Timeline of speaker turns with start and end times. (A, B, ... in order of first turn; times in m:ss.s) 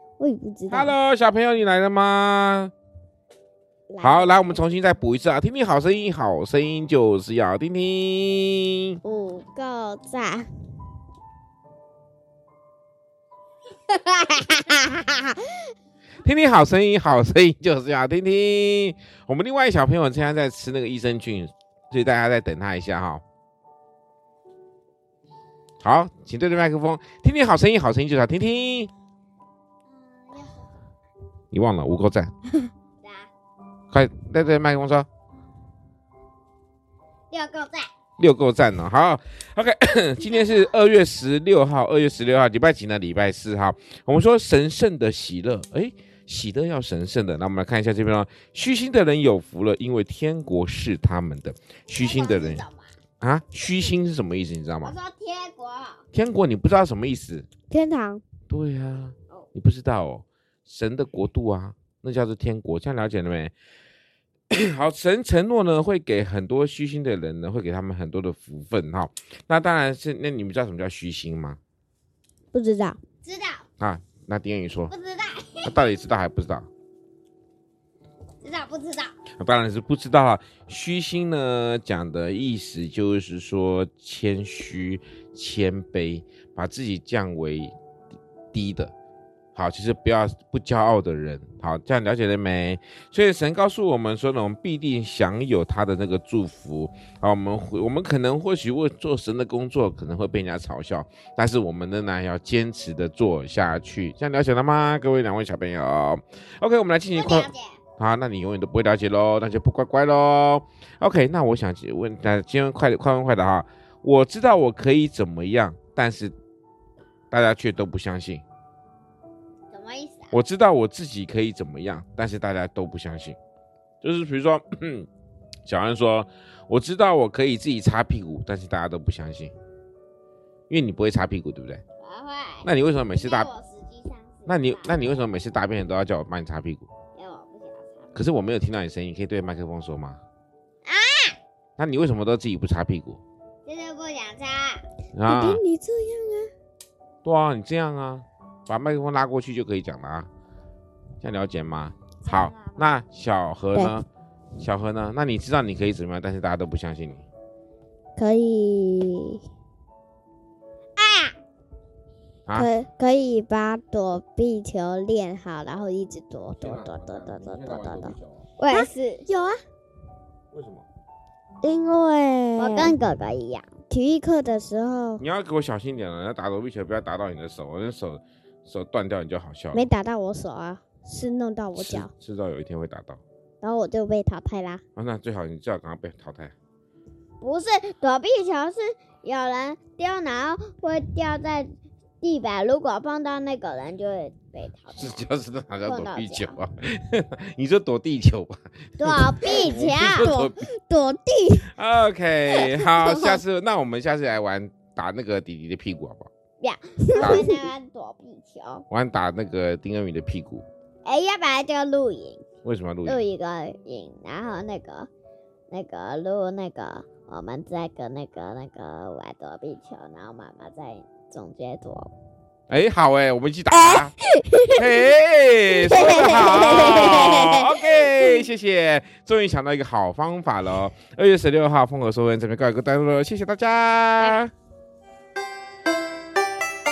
0:00.2-0:01.0 A
0:00.7-0:02.7 B
0:03.9-0:04.6 A
0:04.0-0:09.0 B
0:09.0-0:10.5 A
0:13.9-0:15.4 A
0:16.2-0:23.2 B
0:25.8-0:28.9 B
0:29.9-0:30.7 C
0:31.5-0:32.3 B
0:33.0-0:33.3 C
0:33.9-0:35.1 B
0:37.3-0:37.9 C
0:38.2-0:52.6 B
0:51.9-0:52.9 C
0:53.2-0:54.9 B
0:54.8-0:56.0 C
0:56.1-0:57.5 B
0:57.7-0:58.2 A
0:58.5-1:03.5 B
1:04.5-1:11.6 B
1:12.5-1:13.0 A
1:13.2-1:13.6 C
1:13.8-1:14.9 B
1:14.9-1:15.8 C
1:15.6-1:16.7 B
1:18.4-1:19.1 C
1:19.4-1:27.8 B
1:28.5-1:28.9 B
1:29.6-1:56.3 B
1:47.1-1:47.8 C
1:57.3-1:58.4 B
1:59.7-2:00.4 C
2:00.3-2:03.4 B
2:04.0-2:05.1 B
2:05.7-2:09.5 B
2:10.7-2:11.8 B
2:12.0-2:15.0 C
2:12.6-2:13.5 B
2:14.5-2:16.9 B
2:17.2-2:18.2 C
2:18.2-2:20.2 B
2:20.8-2:21.4 C
2:21.8-2:23.2 B
2:23.7-2:24.8 C
2:25.2-2:25.6 B
2:25.3-2:26.5 A
2:27.2-2:30.3 B
2:31.2-2:34.1 B
2:32.2-2:32.9 C
2:34.6-2:37.3 B
2:38.2-2:39.4 A
2:41.0-2:41.4 C
2:42.6-2:48.2 A
2:46.6-2:48.4 B
2:48.6-2:49.3 C
2:48.7-2:49.6 A
2:50.5-2:50.9 B
2:51.6-2:53.0 A
2:52.6-2:53.7 C
2:53.9-2:55.2 A
2:55.2-2:59.9 B
2:59.7-3:02.1 A
3:01.8-3:03.2 B
3:03.6-3:04.8 A
3:05.0-3:06.5 B
3:07.4-3:15.2 C
3:15.0-3:20.6 B
3:15.8-3:16.6 C
3:19.0-3:20.3 C
3:19.4-3:21.7 A
3:21.7-3:26.3 B
3:22.5-3:23.4 A
3:26.6-3:28.8 C
3:27.0-3:27.7 A
3:27.2-3:27.5 B
3:28.9-3:30.6 B
3:31.0-3:32.4 C
3:32.6-3:33.2 B
3:33.0-3:35.1 C
3:35.7-3:42.1 C
3:42.7-3:44.1 B
3:43.7-3:45.0 A
3:44.7-3:54.5 B
3:45.9-3:48.4 A